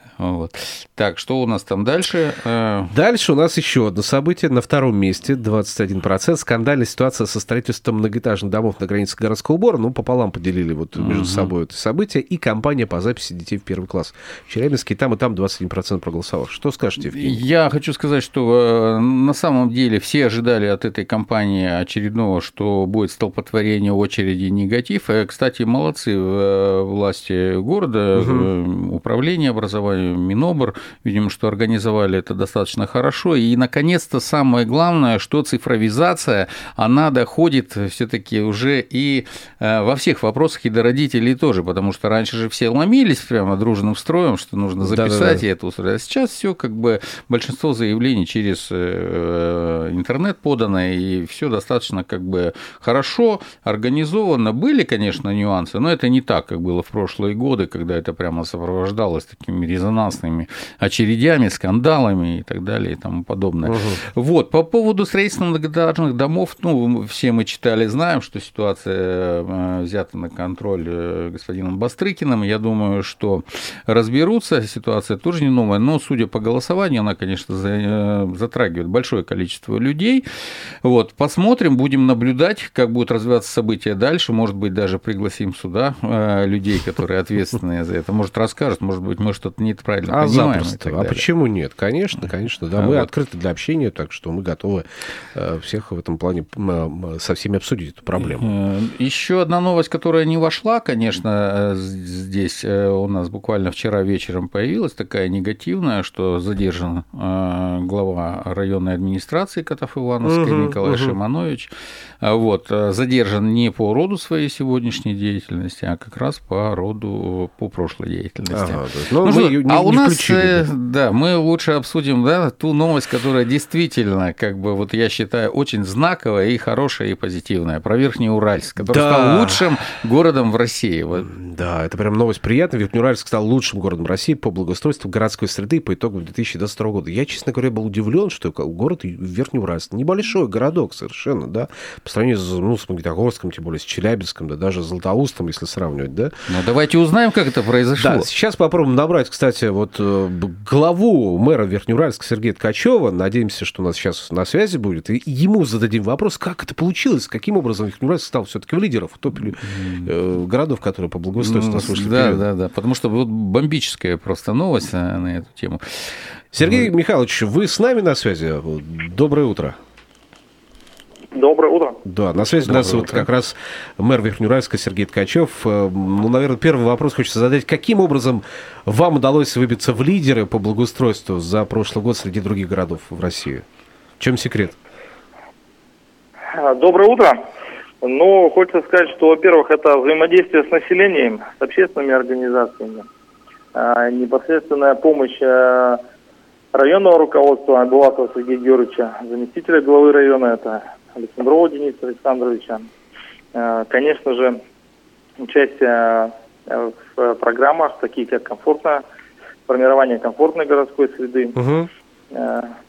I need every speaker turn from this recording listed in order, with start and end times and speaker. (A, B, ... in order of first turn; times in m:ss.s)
0:00.2-0:02.9 A
0:02.9-0:17.4 B
0:10.9-0:11.5 A
0:17.0-1:20.2 A
0:28.1-0:28.5 B
0:44.8-0:45.4 B
1:03.6-1:04.0 B
1:20.8-1:31.2 A
1:30.1-1:38.5 B
1:32.8-1:33.1 A
1:38.2-2:11.3 A
1:50.2-1:51.2 B
1:58.5-2:00.6 B
2:08.8-2:09.6 B
2:11.2-2:26.3 B
2:26.5-2:28.3 A
2:28.0-2:42.4 B
2:39.7-2:40.1 A
2:41.4-2:46.9 A
2:46.5-2:49.8 B
2:51.3-2:52.0 C
2:52.0-3:03.6 B
2:52.6-2:53.3 A
3:04.2-3:04.8 B
3:06.5-3:07.4 C
3:08.0-3:13.1 C
3:13.7-3:16.0 C
3:16.7-3:22.9 C
3:23.5-3:24.6 C
3:25.4-3:29.0 C
3:29.7-3:31.6 C
3:31.6-3:31.9 B
3:32.3-3:32.7 C